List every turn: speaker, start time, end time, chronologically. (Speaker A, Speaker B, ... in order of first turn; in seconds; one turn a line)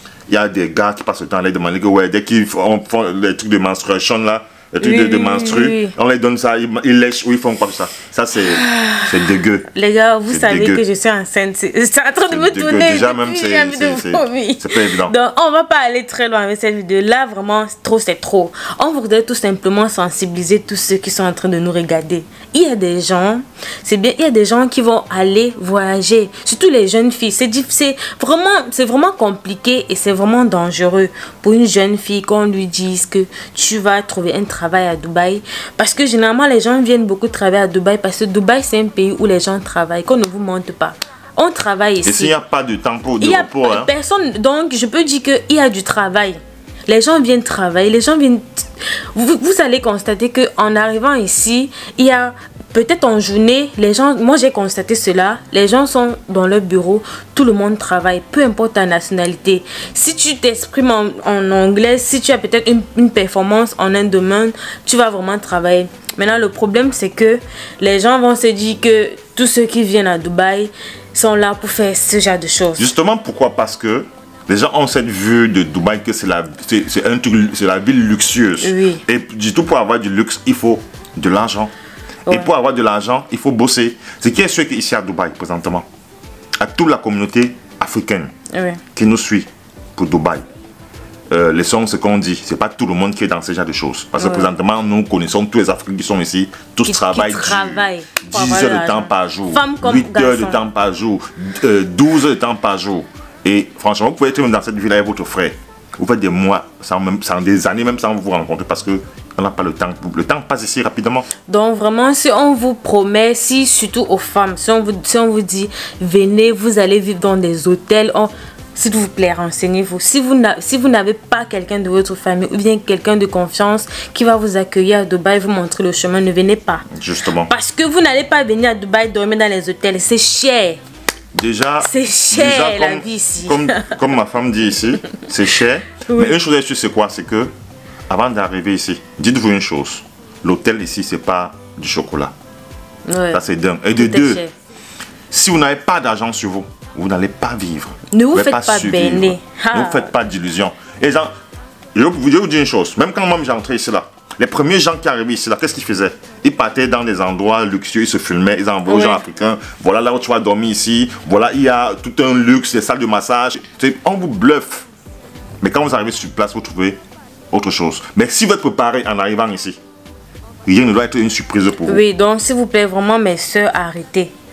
Speaker A: 0.3-9.7
Speaker B: 4.8-5.9
Speaker B: 8.5-9.1
Speaker B: 9.7-42.3
Speaker A: 10.3-10.8
Speaker A: 12.3-15.1
Speaker A: 42.0-43.9
Speaker B: 43.2-72.8
Speaker A: 72.8-81.7
Speaker B: 78.6-79.0
Speaker A: 82.3-85.8
Speaker A: 86.6-88.3
Speaker B: 88.5-88.8
Speaker A: 88.9-90.4
Speaker A: 91.3-111.2
Speaker B: 94.2-94.5
Speaker B: 96.8-100.6
Speaker B: 111.5-126.8
Speaker A: 126.9-127.5
Speaker B: 127.5-130.8
Speaker A: 131.3-137.5
Speaker B: 131.8-134.0
Speaker B: 136.1-136.3
Speaker A: 138.1-142.3
Speaker B: 143.1-143.4
Speaker A: 143.3-144.4
Speaker B: 144.0-144.5
Speaker A: 145.3-151.3
Speaker B: 148.1-150.1
Speaker A: 151.9-164.8
Speaker B: 158.8-159.2
Speaker A: 165.6-167.0
Speaker A: 167.5-169.8
Speaker A: 170.7-172.0
Speaker B: 171.8-174.3